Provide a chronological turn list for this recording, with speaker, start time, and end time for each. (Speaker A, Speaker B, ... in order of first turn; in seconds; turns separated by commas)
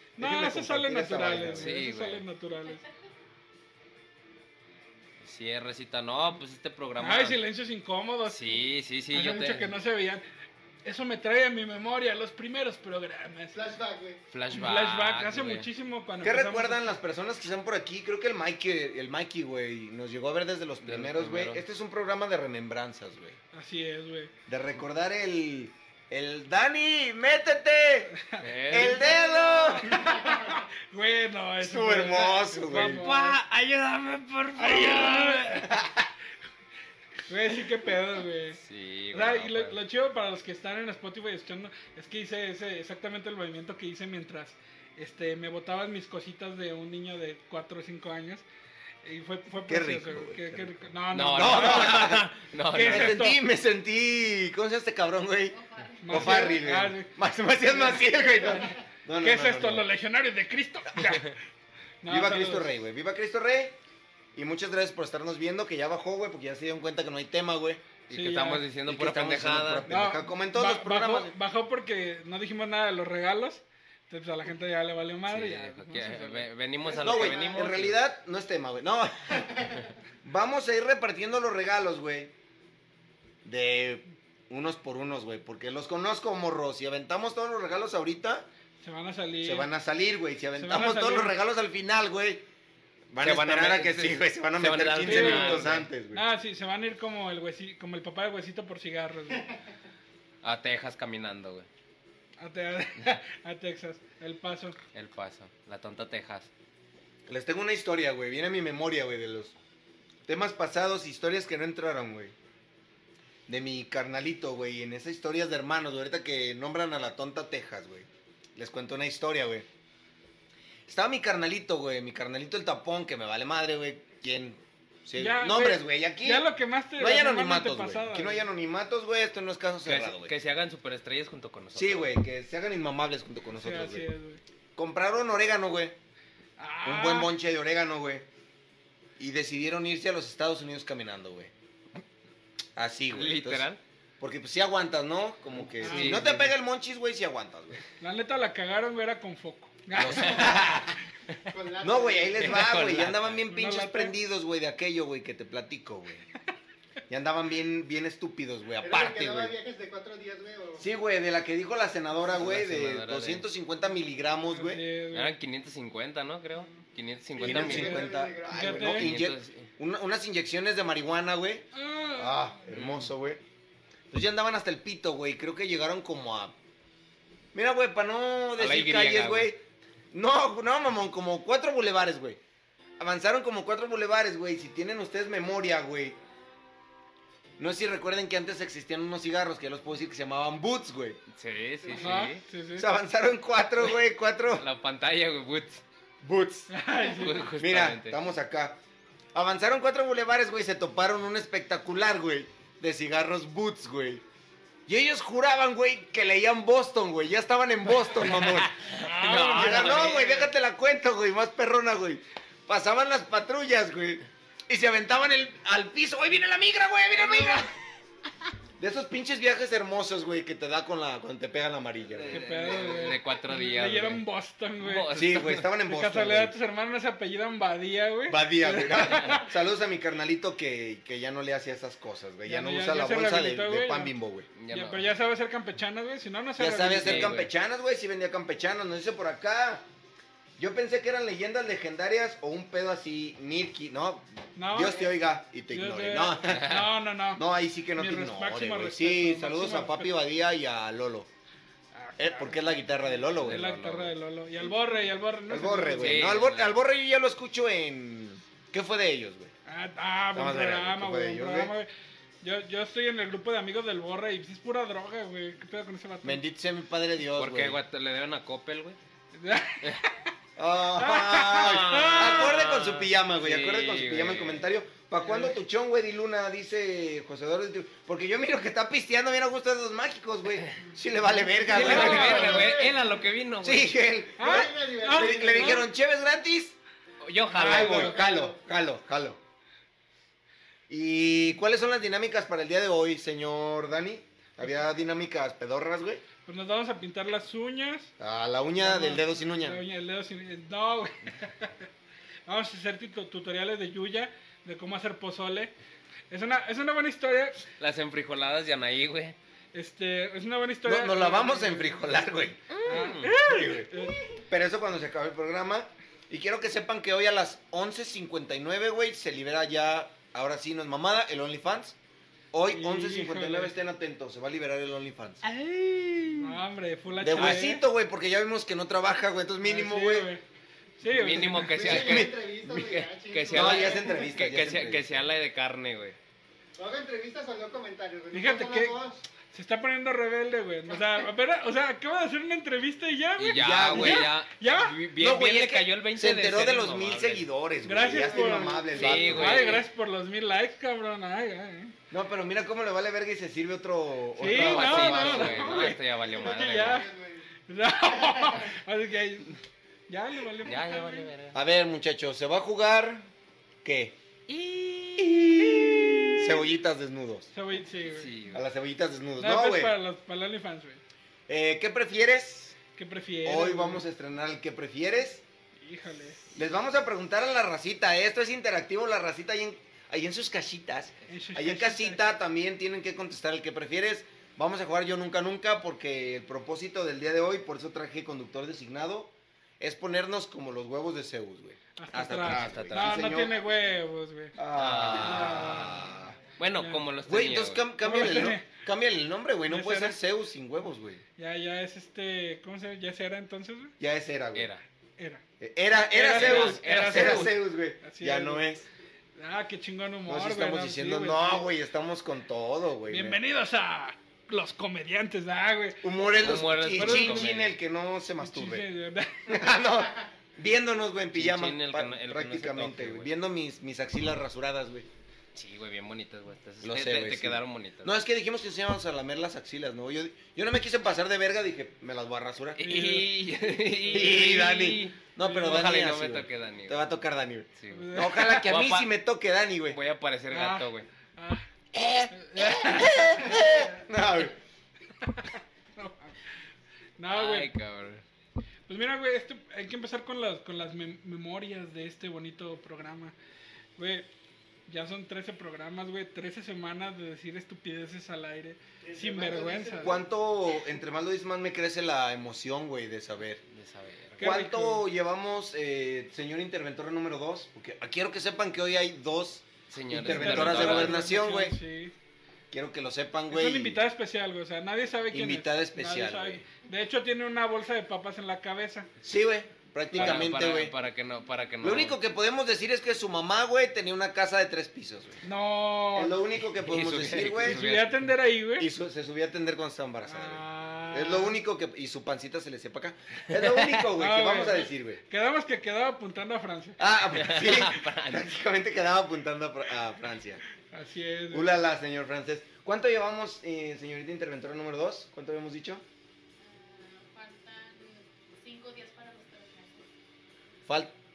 Speaker A: 0.2-1.8, Speaker B: 0.2-2.8, Speaker C: 1.6-2.2, Speaker C: 5.2-7.4, Speaker B: 7.0-8.4, Speaker C: 8.2-9.7, Speaker B: 9.1-10.2, Speaker B: 10.8-13.6, Speaker D: 13.5-14.2, Speaker C: 14.3-15.7, Speaker B: 14.5-16.9, Speaker A: 16.2-23.4, Speaker C: 20.8-21.6, Speaker B: 23.5-24.3, Speaker A: 24.5-28.1, Speaker C: 28.4-29.4, Speaker A: 28.7-30.1, Speaker B: 29.9-33.4, Speaker A: 31.6-33.1, Speaker C: 32.9-35.7, Speaker B: 34.6-35.7, Speaker B: 37.3-38.6, Speaker C: 38.6-39.8, Speaker B: 39.1-48.4, Speaker B: 49.0-52.1, Speaker A: 49.7-55.6, Speaker C: 51.1-53.2, Speaker B: 52.7-53.4, Speaker E: 55.5-56.7, Speaker B: 56.0-57.1, Speaker A: 56.1-59.9, Speaker B: 57.7-61.4, Speaker B: 62.0-62.8, Speaker A: 62.1-63.8, Speaker A: 64.3-67.9, Speaker C: 68.1-69.9, Speaker B: 68.1-68.7, Speaker A: 68.9-71.3, Speaker B: 69.9-76.5, Speaker C: 75.3-78.0, Speaker D: 76.8-77.7, Speaker A: 77.0-79.5, Speaker A: 80.2-82.3, Speaker A: 83.4-88.5, Speaker B: 88.8-89.7, Speaker A: 89.4-92.5, Speaker B: 90.6-91.3, Speaker A: 93.1-96.3, Speaker C: 93.2-95.9, Speaker B: 95.0-99.5, Speaker C: 100.4-101.7, Speaker B: 102.4-104.8, Speaker C: 104.9-106.5, Speaker A: 107.3-109.5, Speaker A: 110.3-112.3, Speaker A: 113.5-119.7, Speaker A: 120.9-130.3, Speaker B: 125.2-128.4, Speaker C: 129.8-132.1, Speaker A: 131.8-134.1, Speaker B: 133.5-134.4, Speaker A: 134.8-135.9, Speaker B: 136.6-137.3, Speaker A: 136.8-138.3, Speaker A: 139.2-141.5, Speaker A: 142.8-143.7, Speaker C: 143.1-143.8, Speaker A: 144.2-147.8, Speaker C: 145.7-146.5, Speaker B: 145.8-146.3, Speaker B: 148.0-150.6, Speaker A: 149.9-150.9, Speaker C: 150.0-151.4, Speaker D: 151.5-152.7, Speaker A: 151.8-156.3, Speaker C: 152.5-153.4, Speaker B: 153.5-154.2, Speaker A: 157.1-159.6, Speaker D: 158.8-160.8, Speaker A: 160.8-164.8, Speaker C: 162.3-163.5, Speaker B: 164.5-165.3, Speaker C: 165.1-168.0, Speaker A: 167.4-173.4, Speaker D: 167.4-168.9, Speaker B: 167.5-169.1, Speaker C: 168.7-169.7, Speaker B: 171.7-172.6, Speaker C: 172.7-173.1, Speaker A: 174.1-176.6, Speaker A: 177.5-182.4, Speaker C: 178.6-179.5, Speaker A: 183.0-186.2, Speaker A: 187.6-191.2, Speaker C: 191.3-192.4, Speaker B: 191.9-192.9, Speaker A: 192.8-194.7, Speaker C: 194.6-195.8, Speaker A: 196.2-196.7, Speaker B: 196.7-197.5, Speaker C: 197.1-198.2, Speaker A: 197.6-198.8, Speaker A: 199.3-204.2, Speaker A: 204.9-217.7, Speaker C: 208.4-210.4, Speaker B: 208.9-210.4, Speaker B: 217.2-217.6, Speaker A: 218.8-222.4, Speaker C: 222.1-224.2, Speaker B: 222.3-229.5, Speaker C: 224.8-225.7, Speaker A: 225.1-226.6, Speaker A: 228.3-234.5, Speaker B: 232.4-234.1, Speaker C: 234.6-235.1, Speaker B: 234.7-237.4, Speaker A: 236.6-239.8, Speaker C: 237.0-237.5, Speaker A: 240.6-251.3, Speaker B: 244.6-245.1, Speaker B: 245.7-247.4, Speaker C: 246.5-246.8, Speaker B: 248.0-250.2, Speaker B: 251.9-252.6, Speaker A: 252.2-253.6, Speaker B: 253.3-256.2, Speaker C: 253.4-254.1, Speaker A: 255.5-259.5, Speaker C: 256.0-256.8, Speaker B: 259.7-261.9, Speaker A: 260.3-261.7, Speaker B: 262.4-266.4, Speaker A: 266.2-267.8, Speaker C: 267.3-269.0, Speaker B: 269.4-270.3, Speaker A: 270.6-282.8, Speaker B: 271.0-272.5, Speaker C: 271.6-274.7, Speaker B: 275.2-275.6, Speaker B: 281.7-282.7, Speaker C: 281.7-283.9, Speaker D: 281.7-283.0, Speaker A: 283.6-286.8, Speaker B: 284.4-285.9, Speaker D: 284.4-285.9, Speaker C: 287.2-288.2, Speaker B: 287.5-288.2, Speaker A: 287.6-289.4, Speaker D: 287.9-288.5, Speaker A: 290.9-296.2, Speaker B: 296.4-298.1, Speaker A: 298.2-299.8, Speaker B: 298.8-301.9, Speaker B: 302.5-305.7, Speaker B: 306.3-307.6, Speaker C: 307.8-309.4, Speaker B: 309.7-312.2, Speaker A: 310.8-313.9, Speaker C: 312.7-313.4, Speaker B: 312.8-314.2, Speaker A: 314.5-322.0, Speaker A: 322.5-325.4, Speaker B: 322.7-323.7, Speaker C: 325.4-326.6, Speaker B: 326.4-327.8, Speaker A: 327.2-330.3, Speaker B: 329.6-330.4, Speaker B: 331.0-331.9, Speaker C: 331.1-336.2, Speaker D: 331.6-334.3, Speaker A: 331.8-332.4, Speaker A: 333.5-335.3, Speaker D: 336.8-339.2, Speaker B: 338.3-344.9, Speaker C: 343.4-347.5, Speaker A: 343.6-344.3, Speaker A: 345.2-349.8, Speaker B: 347.8-351.9, Speaker D: 348.1-349.1, Speaker C: 348.9-349.8, Speaker A: 352.1-355.9, Speaker B: 354.4-357.1, Speaker C: 354.5-357.1, Speaker D: 355.7-357.5, Speaker B: 357.7-359.6, Speaker D: 358.1-358.6, Speaker B: 360.1-361.3, Speaker C: 360.6-361.6, Speaker A: 361.5-363.3, Speaker A: 363.8-364.2, Speaker C: 364.5-366.7, Speaker A: 365.3-367.5, Speaker B: 367.5-368.3, Speaker C: 368.1-368.6, Speaker A: 368.5-369.9, Speaker B: 369.4-371.0, Speaker A: 371.5-372.8, Speaker B: 372.9-374.1, Speaker A: 373.4-375.4, Speaker B: 375.8-376.4, Speaker A: 376.5-393.6, Speaker B: 381.3-382.2, Speaker B: 392.0-394.6, Speaker C: 392.4-393.3, Speaker A: 394.6-396.4, Speaker C: 394.7-396.0, Speaker B: 395.1-396.0, Speaker C: 396.6-397.8, Speaker B: 396.8-397.0, Speaker A: 397.3-401.2, Speaker B: 398.0-398.7, Speaker B: 399.7-400.2, Speaker B: 401.4-403.9, Speaker A: 404.0-404.7, Speaker C: 404.6-404.8, Speaker A: 405.6-408.9, Speaker B: 406.1-408.7, Speaker C: 406.2-407.6, Speaker B: 409.4-411.6, Speaker A: 410.3-413.4, Speaker B: 413.1-416.3, Speaker A: 416.0-418.9, Speaker C: 416.3-417.8, Speaker B: 416.9-417.6, Speaker B: 418.4-419.6, Speaker A: 419.5-425.1, Speaker C: 421.3-423.3, Speaker C: 425.6-428.1, Speaker A: 426.8-432.8, Speaker C: 432.8-437.0, Speaker B: 432.8-434.5, Speaker A: 434.1-440.0, Speaker C: 437.8-439.1, Speaker B: 437.9-438.7, Speaker C: 439.9-441.1, Speaker B: 440.5-441.7, Speaker A: 441.9-444.6, Speaker B: 442.3-443.7, Speaker C: 442.9-443.8, Speaker B: 445.2-446.4, Speaker B: 447.2-447.7, Speaker C: 447.3-448.2, Speaker B: 448.9-453.3, Speaker B: 454.0-454.3, Speaker B: 454.9-460.2, Speaker D: 459.0-460.3, Speaker A: 460.0-463.6, Speaker C: 463.7-464.6, Speaker B: 464.4-465.1, Speaker A: 464.4-471.8, Speaker C: 469.9-471.2, Speaker B: 470.2-472.1, Speaker A: 472.7-474.0, Speaker B: 473.5-479.1, Speaker A: 475.3-476.6, Speaker A: 479.2-480.9, Speaker B: 480.1-480.5, Speaker C: 480.1-482.2, Speaker A: 481.8-485.4, Speaker B: 485.4-486.4, Speaker A: 486.1-487.9, Speaker C: 486.8-488.2, Speaker B: 487.6-488.9, Speaker A: 488.8-495.2, Speaker B: 490.3-491.6, Speaker C: 493.6-494.0, Speaker B: 494.2-497.1, Speaker A: 497.0-500.6, Speaker C: 497.3-498.4, Speaker B: 500.9-501.8, Speaker A: 501.5-506.0, Speaker E: 506.6-510.1, Speaker A: 510.9-511.1